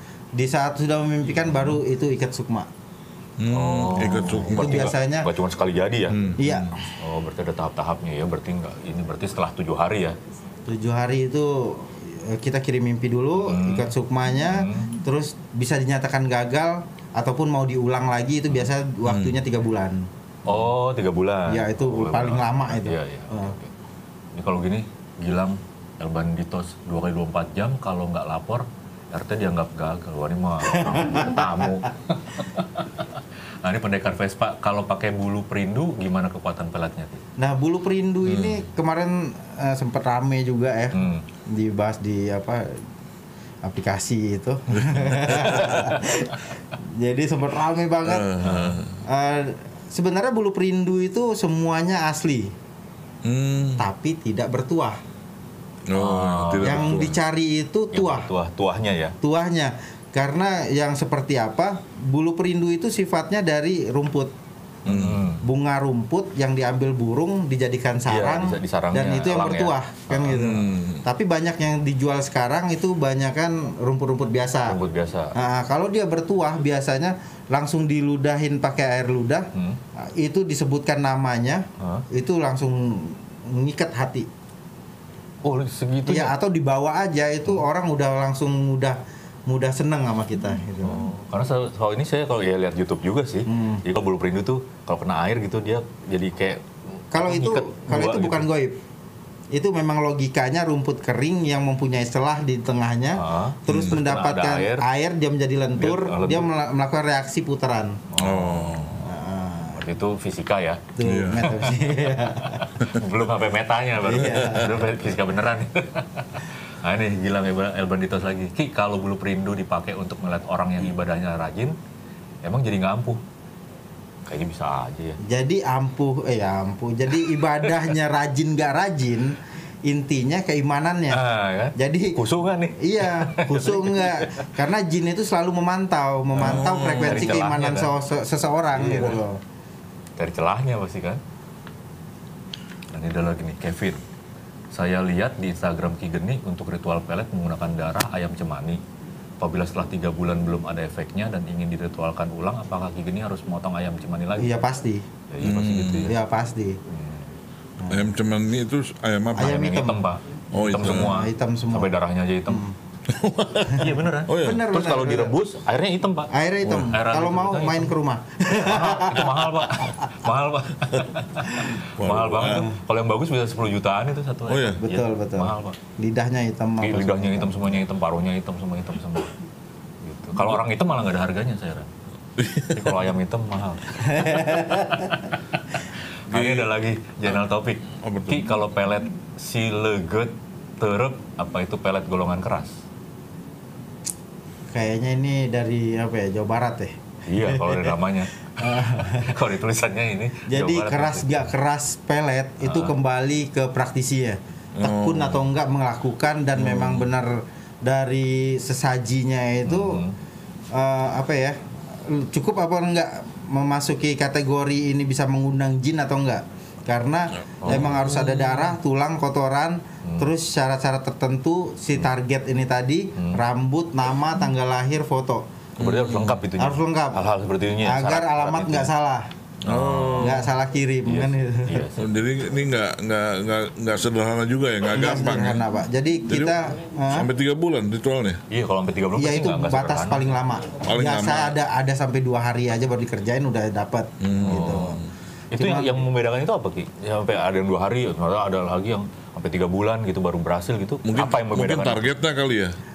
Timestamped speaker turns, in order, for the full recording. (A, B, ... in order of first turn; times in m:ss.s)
0:00.3-0:02.7 A
0:03.4-0:05.0 B
0:03.5-0:06.2 C
0:04.0-0:05.3 A
0:06.1-0:06.8 B
0:06.4-0:06.9 A
0:07.0-0:10.2 C
0:10.6-0:20.1 A
0:13.4-0:14.9 C
0:19.0-0:19.3 B
0:20.4-0:23.7 C
0:21.5-0:23.5 A
0:24.3-0:37.2 C
0:30.8-0:31.5 A
0:37.4-0:42.8 A
0:38.3-0:38.6 B
0:40.9-0:41.2 C
0:43.6-0:48.3 A
0:44.8-0:45.9 B
0:48.0-0:49.0 B
0:48.4-0:48.8 C
0:49.0-0:52.5 A
0:53.2-0:53.8 B
0:53.8-0:55.0 A
0:55.9-0:57.2 B
0:55.9-0:57.0 C
0:56.6-0:58.3 A
0:57.9-0:59.2 C
0:59.2-1:04.3 A
1:04.8-1:05.2 B
1:04.8-1:05.4 C
1:05.4-1:14.8 A
1:08.1-1:10.3 C
1:10.2-1:11.0 B
1:14.6-1:15.4 C
1:15.3-1:24.3 A
1:19.5-1:19.8 C
1:21.8-1:22.0 C
1:25.4-1:26.3 C
1:26.0-1:31.0 A
1:30.8-1:38.4 C
1:33.5-1:33.8 A
1:37.1-1:38.8 A
1:39.5-1:48.0 A
1:43.1-1:44.8 C
1:43.7-1:44.0 B
1:45.8-1:46.5 C
1:48.1-1:49.1 C
1:48.2-1:49.0 B
1:49.0-1:49.8 A
1:49.7-2:01.8 C
1:51.0-1:52.7 A
1:51.0-1:51.5 B
1:54.0-1:54.8 A
2:02.4-2:03.2 C
2:04.3-2:05.2 C
2:05.2-2:11.2 A
2:11.1-2:14.5 C
2:11.8-2:12.2 A
2:12.8-2:19.4 A
2:16.4-2:17.9 C
2:16.4-2:17.4 B
2:18.7-2:19.2 C
2:20.2-2:21.2 C
2:22.9-2:24.0 C
2:24.7-2:28.8 C
2:29.4-2:34.5 C
2:34.4-2:35.0 A
2:35.3-2:36.2 C
2:35.4-2:36.1 B
2:36.0-2:36.8 A
2:36.9-2:37.3 C
2:37.8-2:38.1 A
2:37.9-2:39.6 B
2:39.4-2:40.0 A
2:39.4-2:42.6 C
2:40.5-2:41.2 B
2:40.8-2:42.0 A
2:42.5-2:42.8 A
2:43.1-2:44.6 B
2:43.7-2:47.9 C
2:43.7-2:45.3 A
2:46.3-2:49.7 A
2:48.5-2:55.8 C
2:52.0-2:52.6 B
2:52.4-2:52.7 A
2:54.5-2:54.8 B
2:54.8-2:57.8 A
2:56.8-2:59.3 C
3:00.0-3:01.9 C
3:02.4-3:03.0 B
3:02.7-3:05.6 C
3:04.1-3:05.1 A
3:06.2-3:12.8 C
3:06.3-3:06.7 B
3:08.0-3:08.5 B
3:14.7-3:18.0 A
3:17.2-3:21.5 C
3:18.6-3:19.3 A
3:20.5-3:30.0 A
3:22.6-3:23.0 C
3:24.8-3:25.4 B
3:26.6-3:27.1 C
3:29.6-3:30.2 C
3:30.7-3:45.4 A
3:37.6-3:38.7 C
3:43.2-3:43.4 C
3:45.8-3:48.9 C
3:45.8-3:46.3 B
3:46.6-3:47.2 A
3:47.8-3:49.3 A
3:49.6-3:50.5 C
3:49.6-3:50.4 B
3:50.2-3:51.8 A
3:51.0-3:52.1 C
3:52.0-3:55.6 B
3:54.9-3:57.3 A
3:56.3-3:58.4 B
3:58.5-4:00.4 C
3:59.1-4:05.0 A
4:00.8-4:01.6 B
4:04.2-4:05.0 B
4:04.4-4:05.0 C
4:05.5-4:12.1 C
4:05.6-4:06.0 A
4:11.0-4:12.8 B